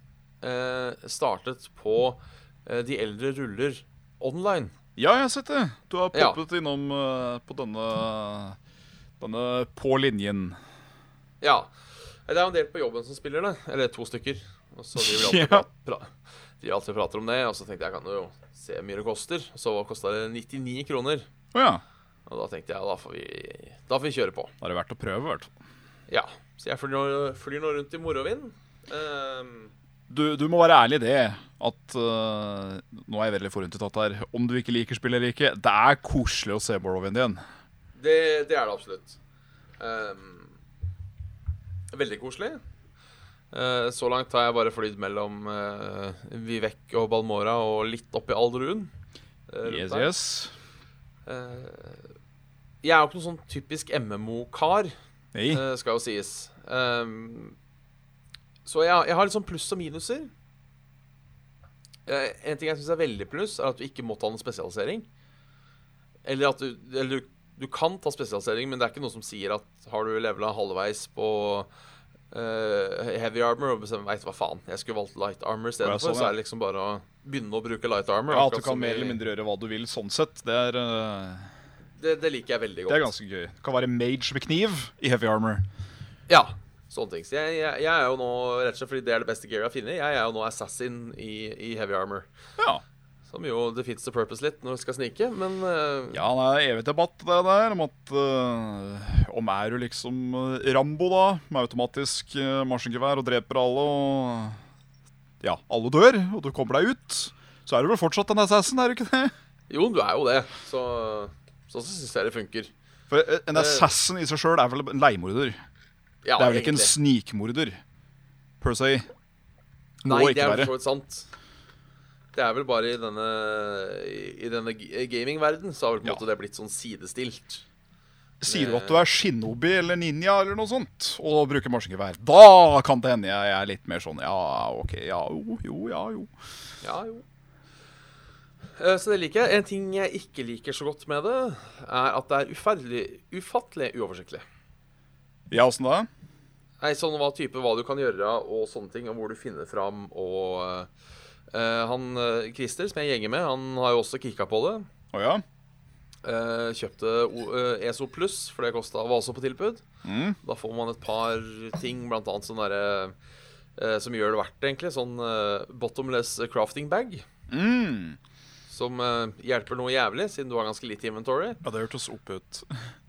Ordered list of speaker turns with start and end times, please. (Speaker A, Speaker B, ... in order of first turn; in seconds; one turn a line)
Speaker A: 0.4-4.7
Speaker B: 5.0-8.6
Speaker A: 6.1-6.4
Speaker B: 9.2-10.6
Speaker A: 11.4-11.7
Speaker A: 12.3-21.2
Speaker B: 14.9-15.6
Speaker B: 21.5-21.8
Speaker A: 22.3-24.5
Speaker B: 24.6-25.5
Speaker A: 26.1-29.7
Speaker B: 30.1-37.4
Speaker A: 38.0-39.2
Speaker A: 39.8-40.5
Speaker A: 41.9-42.6
Speaker A: 43.5-48.9
Speaker A: 49.5-50.1
Speaker B: 49.6-50.5
Speaker A: 51.2-52.1
Speaker A: 52.8-54.9
Speaker B: 55.3-55.6
Speaker A: 55.5-57.5
Speaker A: 58.6-60.3
Speaker A: 62.1-65.1
Speaker A: 66.2-71.7
Speaker A: 72.3-79.2
Speaker B: 75.8-76.3
Speaker B: 78.3-81.5
Speaker A: 82.0-83.1
Speaker B: 82.9-85.7
Speaker A: 86.3-92.3
Speaker A: 93.3-96.2
Speaker B: 96.1-104.6
Speaker B: 105.4-109.3
Speaker A: 109.7-112.7
Speaker B: 113.1-115.6
Speaker A: 113.5-113.8
Speaker A: 116.2-116.9
Speaker B: 116.4-117.8
Speaker B: 118.6-119.0
Speaker B: 120.0-120.7
Speaker A: 120.0-121.3
Speaker A: 122.3-127.6
Speaker B: 128.4-136.3
Speaker A: 128.4-129.0
Speaker A: 136.8-137.2
Speaker A: 138.8-144.4
Speaker B: 145.5-146.1
Speaker A: 146.8-150.9
Speaker A: 151.5-154.9
Speaker B: 155.1-155.4
Speaker A: 156.2-159.8
Speaker B: 160.0-160.4
Speaker A: 160.4-163.1
Speaker A: 163.8-167.2
Speaker B: 167.5-168.2
Speaker A: 168.7-171.6
Speaker B: 171.6-172.8